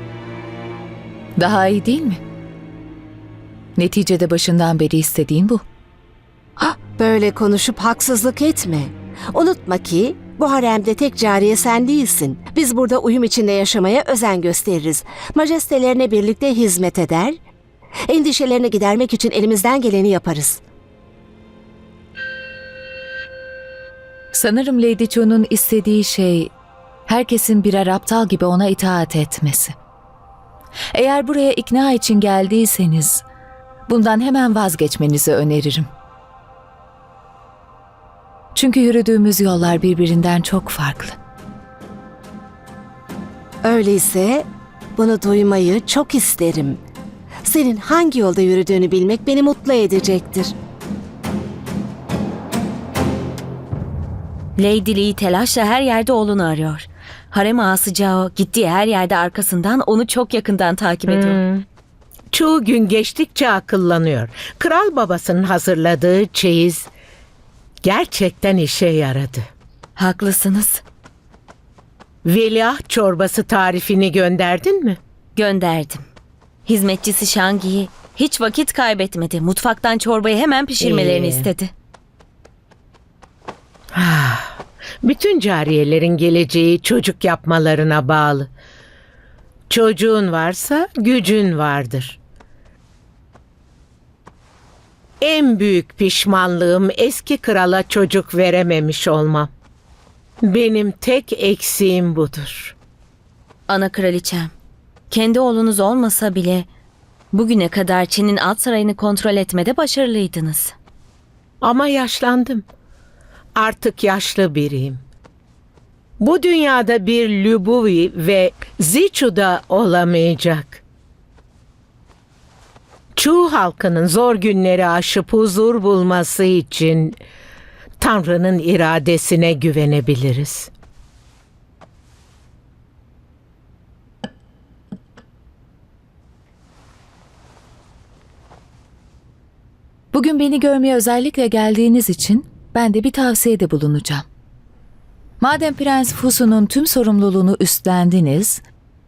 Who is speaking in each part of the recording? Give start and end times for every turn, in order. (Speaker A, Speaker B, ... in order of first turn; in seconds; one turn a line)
Speaker A: 1.4-2.2
Speaker A: 3.8-5.6
Speaker B: 6.6-17.4
Speaker B: 18.1-20.6
Speaker A: 24.3-26.5
Speaker A: 27.1-29.8
Speaker A: 30.9-33.2
Speaker A: 33.9-35.9
Speaker A: 38.5-41.2
Speaker B: 43.6-44.5
Speaker B: 45.0-46.8
Speaker B: 47.5-50.5
Speaker C: 54.6-61.4
Speaker D: 61.1-61.6
Speaker D: 62.3-66.9
Speaker D: 67.8-69.4
Speaker C: 70.0-70.8
Speaker D: 72.2-75.0
Speaker C: 75.4-76.0
Speaker C: 76.7-81.7
Speaker D: 80.8-81.5
Speaker D: 83.9-88.5
Speaker D: 89.7-92.2
Speaker D: 95.2-99.5
Speaker D: 100.4-102.8
Speaker C: 103.7-104.5
Speaker C: 105.1-106.7
Speaker C: 107.3-110.7
Speaker D: 111.6-112.6
Speaker D: 113.6-115.0
Speaker D: 116.2-120.8
Speaker D: 123.2-127.2
Speaker D: 128.0-130.7
Speaker A: 140.1-144.3
Speaker A: 145.4-148.6